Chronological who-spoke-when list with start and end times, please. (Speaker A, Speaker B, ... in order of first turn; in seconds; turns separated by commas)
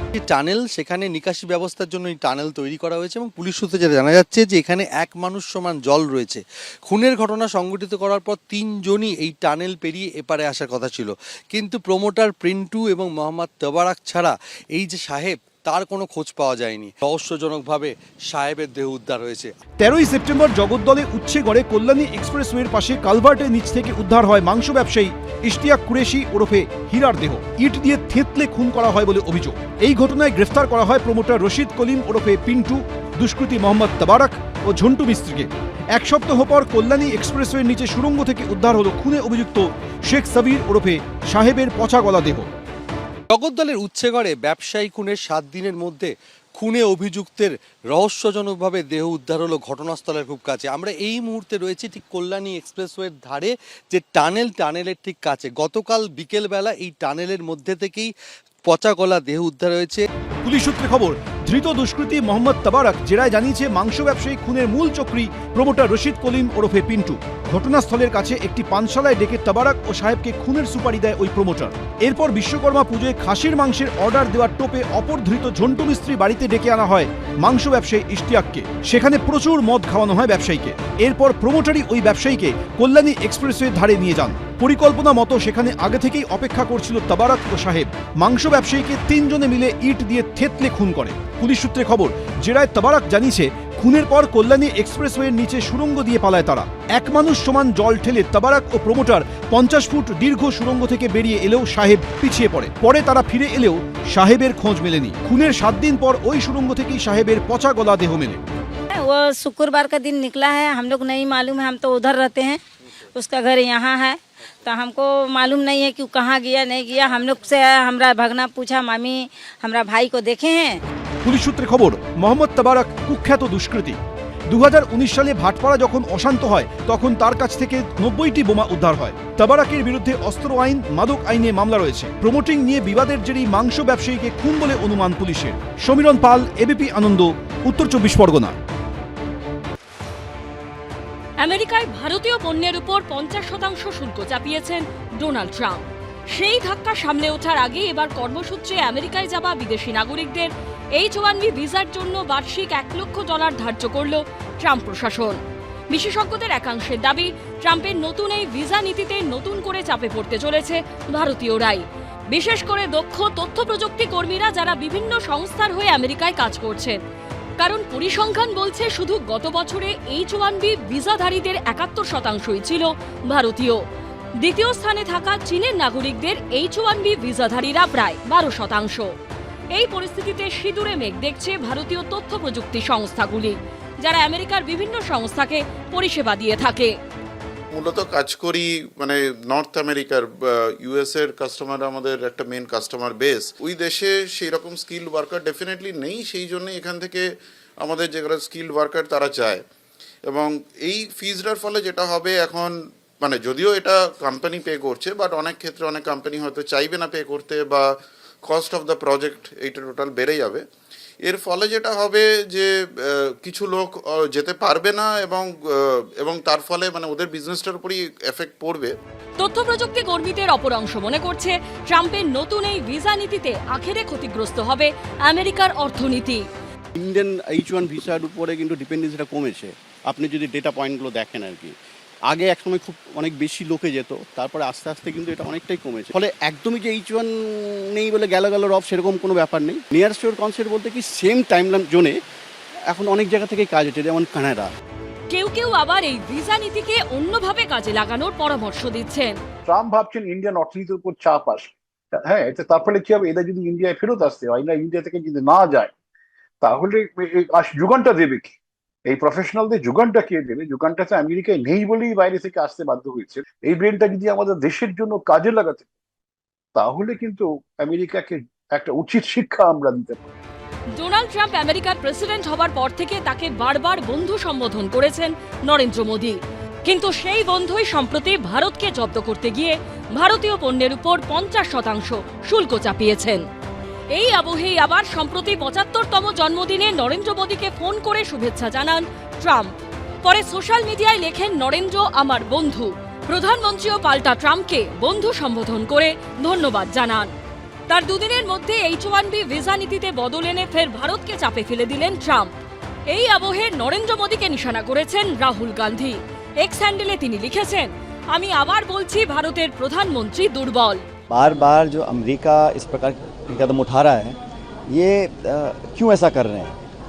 Speaker A: 0.1-19.5, Speaker B: 19.8-42.5, Speaker A: 43.3-58.1, Speaker A: 58.6-60.0, Speaker B: 60.4-108.4, Speaker C: 108.9-112.6, Speaker C: 113.1-120.8, Speaker B: 121.2-138.5, Speaker D: 141.4-155.4, Speaker D: 155.9-167.0, Speaker D: 167.6-173.8, Speaker D: 174.4-179.1, Speaker D: 179.7-187.0, Speaker E: 187.7-197.3, Speaker E: 197.8-199.6, Speaker E: 200.2-207.9, Speaker E: 208.4-210.6, Speaker E: 211.2-218.9, Speaker D: 219.4-226.4, Speaker F: 227.0-231.7, Speaker F: 232.3-242.1, Speaker F: 242.9-244.7, Speaker D: 245.3-249.4, Speaker G: 249.7-251.7, Speaker G: 252.2-255.9, Speaker G: 256.6-258.5, Speaker G: 259.1-265.9, Speaker G: 266.8-270.3, Speaker D: 270.9-283.4, Speaker D: 284.1-289.7, Speaker D: 290.2-297.3, Speaker D: 297.9-302.5, Speaker D: 303.1-311.0, Speaker H: 311.3-316.8